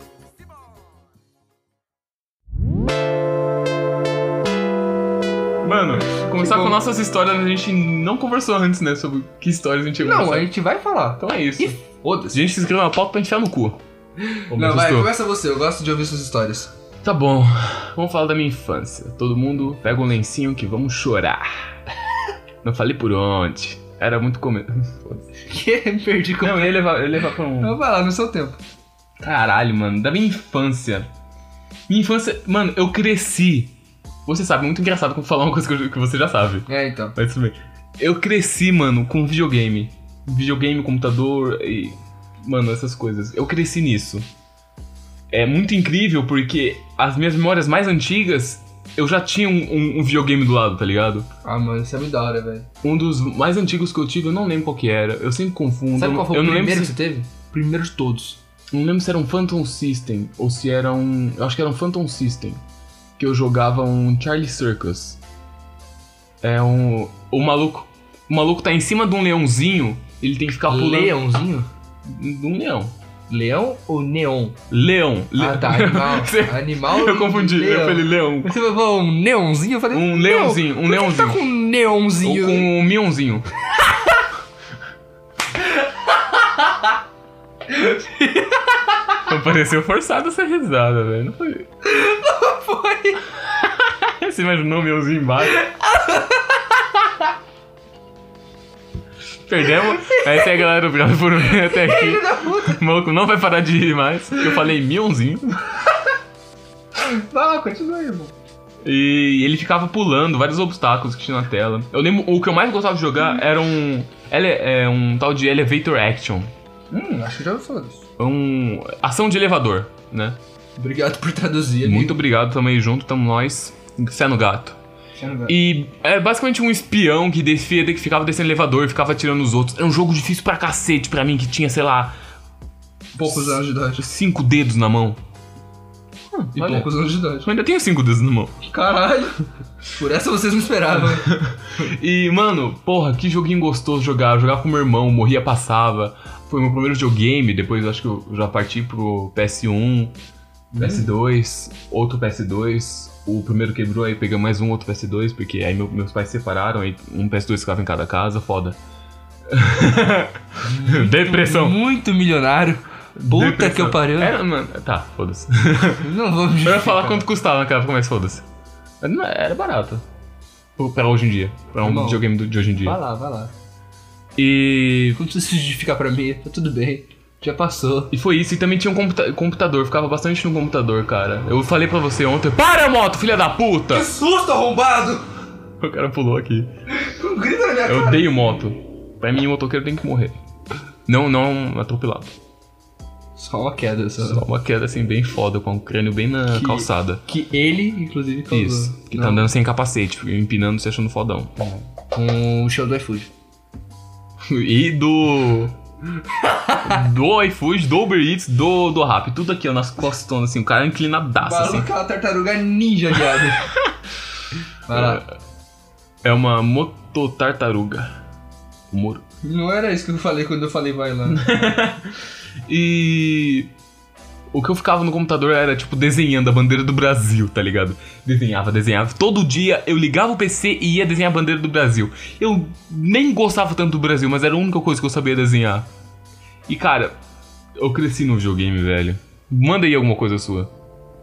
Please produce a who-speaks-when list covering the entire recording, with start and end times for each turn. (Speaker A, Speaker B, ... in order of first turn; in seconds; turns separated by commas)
Speaker A: 5.6-10.5, Speaker B: 6.4-6.8, Speaker B: 10.0-12.4, Speaker A: 11.2-11.8, Speaker A: 12.3-13.8, Speaker B: 14.2-16.7, Speaker A: 14.5-15.1, Speaker A: 17.0-21.7, Speaker A: 22.6-25.3, Speaker B: 25.5-26.9, Speaker A: 26.4-27.8, Speaker B: 27.6-28.6, Speaker A: 29.2-31.1, Speaker A: 31.9-33.7, Speaker A: 34.2-44.3, Speaker B: 36.7-37.1, Speaker A: 45.3-51.3, Speaker B: 51.4-52.7, Speaker A: 52.8-57.0, Speaker B: 55.9-58.4, Speaker A: 58.7-62.6, Speaker A: 63.2-65.2, Speaker A: 66.4-71.2, Speaker B: 70.7-71.7, Speaker A: 72.0-72.9, Speaker B: 73.3-74.6, Speaker A: 74.7-78.5, Speaker B: 75.4-82.7, Speaker A: 79.9-81.4, Speaker A: 82.2-83.5, Speaker B: 87.7-88.7, Speaker A: 89.3-91.7, Speaker B: 91.8-93.2, Speaker A: 93.4-95.6, Speaker B: 95.5-96.6, Speaker A: 99.5-105.6, Speaker B: 99.8-100.6, Speaker B: 101.5-102.8, Speaker B: 107.0-108.3, Speaker A: 108.8-116.5, Speaker B: 116.9-118.0, Speaker A: 118.2-120.4, Speaker B: 120.8-122.2, Speaker A: 121.8-124.8, Speaker B: 125.2-125.5, Speaker A: 125.5-132.1, Speaker B: 133.2-134.0, Speaker A: 133.3-135.2, Speaker A: 136.3-138.6, Speaker B: 136.5-137.5, Speaker B: 138.6-141.3, Speaker A: 141.0-150.1, Speaker B: 150.7-151.1, Speaker A: 150.8-158.8, Speaker A: 159.5-161.8, Speaker B: 160.6-164.3, Speaker A: 163.2-166.1, Speaker B: 166.0-167.2, Speaker A: 166.6-168.4, Speaker A: 169.0-170.0, Speaker A: 170.8-173.0, Speaker B: 171.8-172.2, Speaker B: 172.8-173.5, Speaker A: 174.3-175.2, Speaker B: 175.2-178.1, Speaker A: 178.1-184.1, Speaker B: 183.9-185.2, Speaker A: 185.8-186.7, Speaker B: 186.9-188.2, Speaker A: 187.8-190.4, Speaker A: 191.1-192.3, Speaker B: 193.3-194.4, Speaker A: 194.2-197.2, Speaker B: 196.5-199.5, Speaker A: 198.5-201.6, Speaker B: 201.6-203.3, Speaker A: 204.4-205.8, Speaker B: 206.4-207.0, Speaker A: 206.8-211.9, Speaker B: 211.4-213.7, Speaker A: 213.3-213.9, Speaker B: 214.9-215.2, Speaker A: 214.9-215.2, Speaker A: 216.2-218.2, Speaker A: 218.9-219.2, Speaker B: 219.4-221.4, Speaker A: 221.3-223.7, Speaker A: 224.5-235.9, Speaker A: 236.7-237.2, Speaker A: 237.8-240.7